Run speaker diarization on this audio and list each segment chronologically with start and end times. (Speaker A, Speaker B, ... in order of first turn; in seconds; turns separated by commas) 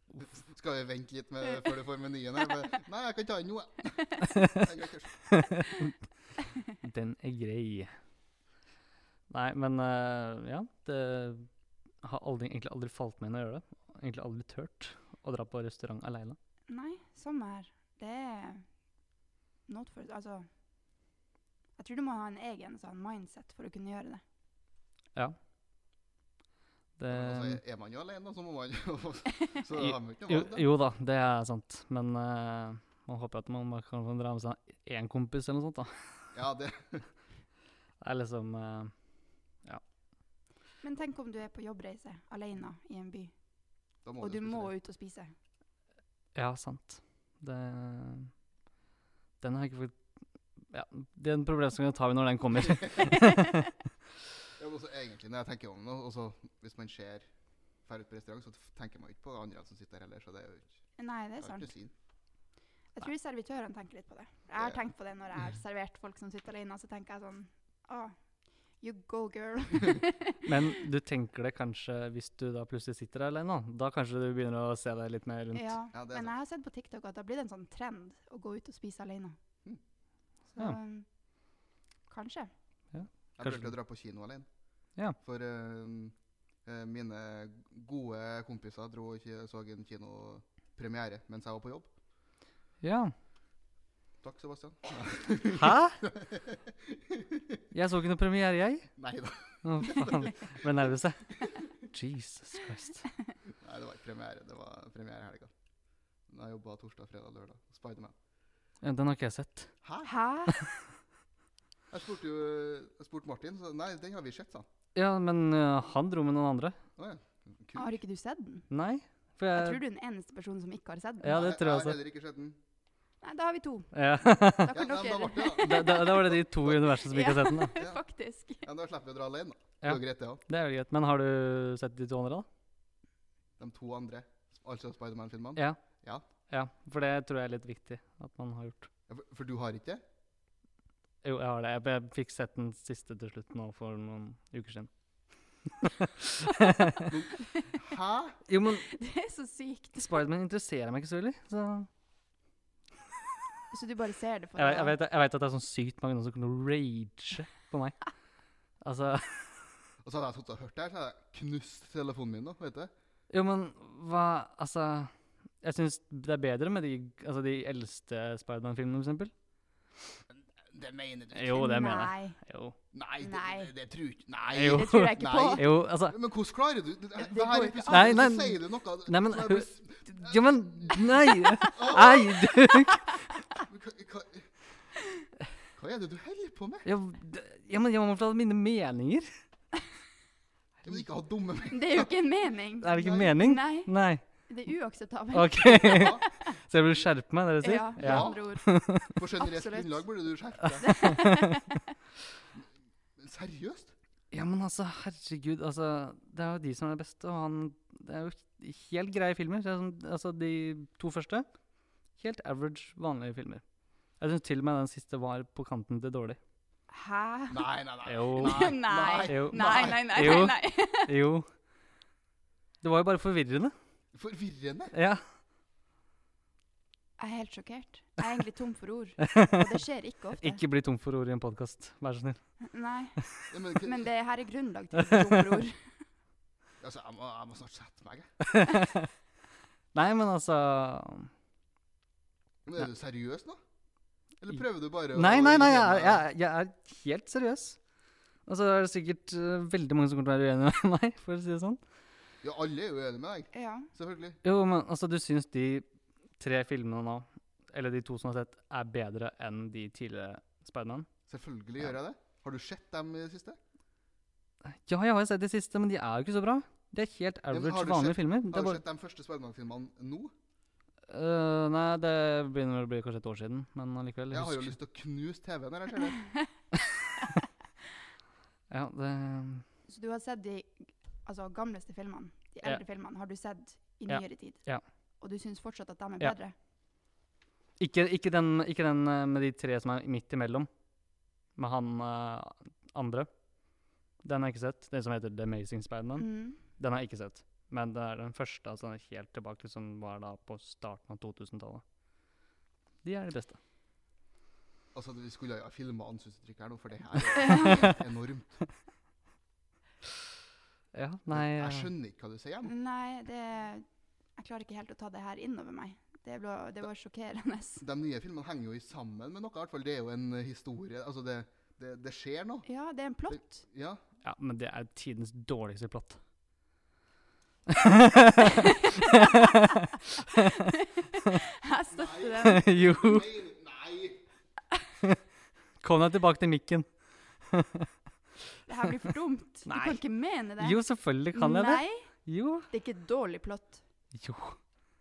Speaker A: 0.3-5.4, Speaker B: 5.3-5.9, Speaker B: 6.7-7.9, Speaker B: 9.3-16.4, Speaker C: 16.7-18.7, Speaker C: 19.7-20.5, Speaker C: 21.8-24.2, Speaker B: 27.0-27.6, Speaker A: 27.1-30.6, Speaker B: 29.7-36.3, Speaker A: 36.3-37.1, Speaker B: 38.0-39.8, Speaker C: 40.8-43.4, Speaker A: 44.0-44.7, Speaker C: 44.2-45.3, Speaker B: 46.3-48.3, Speaker B: 49.4-53.7, Speaker A: 54.6-57.3, Speaker A: 57.8-60.8, Speaker C: 61.0-61.7, Speaker A: 61.4-61.9, Speaker C: 62.9-68.2, Speaker A: 64.5-64.8, Speaker C: 68.7-70.5, Speaker B: 70.4-75.8, Speaker C: 75.5-79.3, Speaker A: 75.9-76.3, Speaker C: 80.5-81.1, Speaker C: 82.1-82.5, Speaker B: 82.9-83.7, Speaker A: 83.3-84.5, Speaker A: 85.2-91.9, Speaker B: 92.8-93.1, Speaker A: 94.2-97.6, Speaker B: 95.5-96.0, Speaker B: 97.7-98.9, Speaker A: 99.0-100.3, Speaker B: 99.6-103.0, Speaker A: 103.6-105.5, Speaker A: 106.3-108.1, Speaker B: 108.8-109.7, Speaker A: 109.8-110.1, Speaker C: 110.0-110.6, Speaker A: 111.9-114.7, Speaker B: 114.9-116.8, Speaker A: 117.0-117.9, Speaker C: 117.7-118.7, Speaker B: 118.7-119.8, Speaker C: 119.5-121.4, Speaker B: 121.2-122.0, Speaker A: 121.3-122.6, Speaker C: 123.2-128.6, Speaker B: 123.9-124.8, Speaker A: 124.7-126.8, Speaker B: 125.6-127.7, Speaker A: 128.6-130.4, Speaker B: 129.8-132.4, Speaker A: 133.6-136.2, Speaker B: 136.5-138.9, Speaker A: 139.1-140.0, Speaker B: 141.2-147.1, Speaker A: 147.1-148.4, Speaker C: 147.4-147.7, Speaker B: 148.4-148.9, Speaker C: 148.8-150.2, Speaker B: 150.0-151.9, Speaker C: 153.7-154.9, Speaker B: 154.6-158.1, Speaker B: 158.8-159.7, Speaker A: 160.0-162.9, Speaker B: 163.3-169.3, Speaker A: 170.3-172.1, Speaker B: 171.3-172.8, Speaker C: 171.5-172.4, Speaker A: 172.9-181.0, Speaker C: 173.2-173.7, Speaker B: 174.5-176.2, Speaker C: 174.6-175.6, Speaker C: 177.2-178.3, Speaker B: 177.9-183.2, Speaker C: 181.3-181.9, Speaker A: 181.7-182.6, Speaker A: 183.6-184.5, Speaker A: 185.8-186.9, Speaker B: 186.8-189.3, Speaker A: 190.8-192.1, Speaker C: 191.7-196.5, Speaker B: 192.8-194.5, Speaker A: 193.0-193.3, Speaker B: 195.3-199.2, Speaker A: 195.7-196.2, Speaker C: 197.6-198.8, Speaker A: 198.0-198.4, Speaker A: 199.1-201.2, Speaker C: 199.3-200.1, Speaker C: 200.8-201.8, Speaker B: 200.9-201.6, Speaker A: 202.5-203.9, Speaker B: 204.3-211.4, Speaker B: 212.1-216.4, Speaker C: 216.9-217.6, Speaker A: 217.5-220.4, Speaker B: 218.0-221.5, Speaker C: 218.4-221.1, Speaker B: 222.8-223.7, Speaker A: 224.1-224.9, Speaker B: 224.9-225.2, Speaker C: 227.2-230.6, Speaker B: 229.3-229.7, Speaker B: 230.4-232.5, Speaker C: 232.7-233.2, Speaker A: 233.5-234.1, Speaker C: 233.7-235.9, Speaker B: 235.1-235.6, Speaker A: 236.8-238.3, Speaker B: 238.4-239.1, Speaker B: 239.9-241.3, Speaker A: 242.6-243.6, Speaker A: 244.4-246.2, Speaker B: 245.1-247.8, Speaker B: 248.4-251.8, Speaker A: 252.4-254.4, Speaker C: 253.5-253.9, Speaker B: 254.4-255.8, Speaker B: 256.4-261.1, Speaker A: 261.3-263.6, Speaker B: 264.7-268.8, Speaker A: 267.5-270.3, Speaker B: 271.1-274.7, Speaker A: 274.3-276.2, Speaker B: 278.7-279.6, Speaker C: 279.9-284.6, Speaker B: 284.1-284.8, Speaker C: 285.2-286.5, Speaker B: 287.8-290.7, Speaker B: 291.6-293.3, Speaker B: 294.2-301.8, Speaker C: 296.2-296.6, Speaker B: 303.0-303.6, Speaker A: 304.9-308.6, Speaker B: 307.5-307.9, Speaker B: 310.9-311.9, Speaker A: 311.3-312.7, Speaker C: 312.6-317.8, Speaker A: 317.8-322.6, Speaker C: 322.6-323.6, Speaker A: 323.3-324.0, Speaker B: 324.2-326.2, Speaker B: 327.7-331.3, Speaker C: 329.0-329.4, Speaker C: 330.4-332.6, Speaker A: 331.9-334.2, Speaker B: 332.4-333.3, Speaker B: 335.8-337.9, Speaker C: 338.7-340.8, Speaker B: 339.6-340.0, Speaker B: 340.6-342.7, Speaker C: 341.3-343.8, Speaker B: 344.1-344.6